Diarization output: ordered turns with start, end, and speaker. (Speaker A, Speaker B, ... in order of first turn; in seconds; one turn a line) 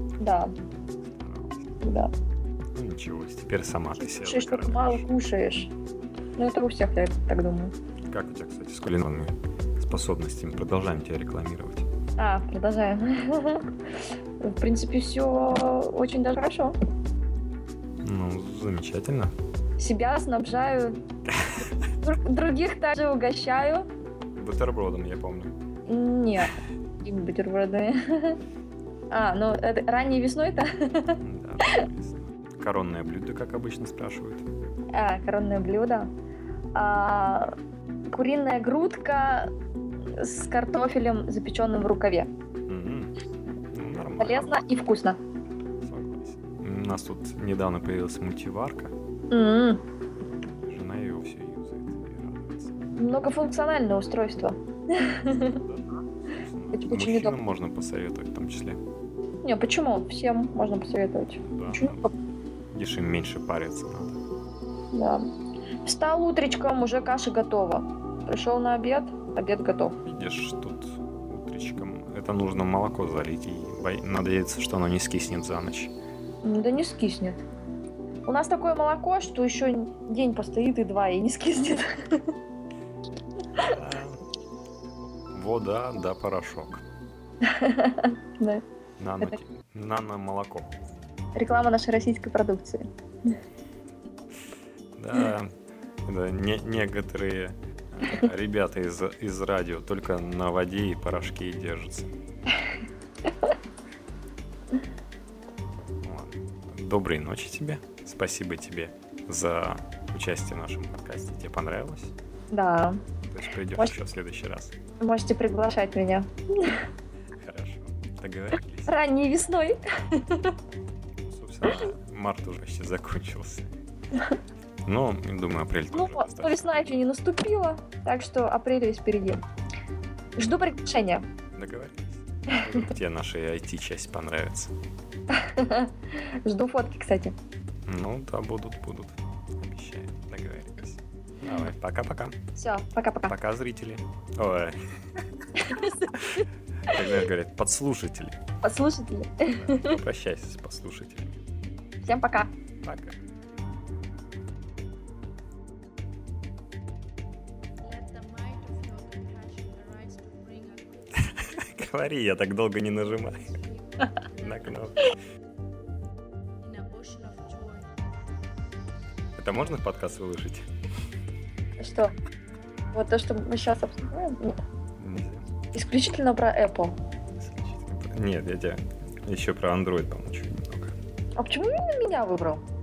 Speaker A: 0.2-0.5
Speaker B: 0.7-1.7
Speaker A: 1.8-2.1
Speaker B: 2.7-5.1
Speaker A: 4.1-5.7
Speaker A: 6.4-7.7
Speaker B: 8.1-11.9
Speaker A: 12.2-13.8
Speaker A: 14.4-16.8
Speaker B: 18.0-19.3
Speaker A: 19.8-21.0
Speaker B: 21.4-21.6
Speaker A: 22.0-23.9
Speaker B: 24.3-25.5
Speaker A: 25.9-28.4
Speaker A: 29.1-31.8
Speaker B: 31.2-34.5
Speaker A: 34.9-36.1
Speaker A: 36.7-37.5
Speaker A: 38.1-39.5
Speaker A: 40.1-42.3
Speaker B: 42.7-43.1
Speaker B: 43.7-44.6
Speaker A: 44.2-45.2
Speaker B: 45.8-48.9
Speaker A: 49.3-49.8
Speaker B: 50.6-52.9
Speaker A: 53.0-55.6
Speaker B: 55.3-58.8
Speaker A: 56.7-57.3
Speaker A: 59.4-62.1
Speaker B: 61.4-62.1
Speaker B: 62.7-64.2
Speaker A: 64.9-65.3
Speaker A: 65.8-70.0
Speaker B: 70.0-75.9
Speaker A: 76.4-77.4
Speaker A: 78.3-82.3
Speaker B: 83.5-84.2
Speaker B: 85.3-86.8
Speaker A: 87.4-88.6
Speaker B: 89.0-90.7
Speaker A: 91.3-93.3
Speaker B: 95.0-102.1
Speaker B: 106.0-112.1
Speaker A: 112.5-113.0
Speaker B: 113.2-114.7
Speaker A: 115.0-116.8
Speaker B: 117.3-119.0
Speaker A: 118.9-120.6
Speaker B: 121.2-123.7
Speaker B: 124.8-126.7
Speaker A: 125.9-129.4
Speaker A: 130.4-131.3
Speaker B: 131.5-134.7
Speaker A: 135.3-137.3
Speaker B: 137.8-142.4
Speaker A: 142.6-143.3
Speaker B: 143.3-145.2
Speaker A: 145.6-146.0
Speaker B: 145.7-148.4
Speaker A: 148.6-150.0
Speaker B: 149.5-151.4
Speaker A: 152.0-152.5
Speaker B: 152.8-153.2
Speaker C: 157.8-161.7
Speaker B: 161.2-163.6
Speaker C: 163.0-165.2
Speaker B: 164.4-165.1
Speaker C: 166.6-168.1
Speaker B: 169.4-170.7
Speaker A: 171.8-172.1
Speaker A: 172.9-174.6
Speaker B: 175.0-175.5
Speaker A: 175.7-177.0
Speaker B: 177.4-180.9
Speaker A: 181.4-182.6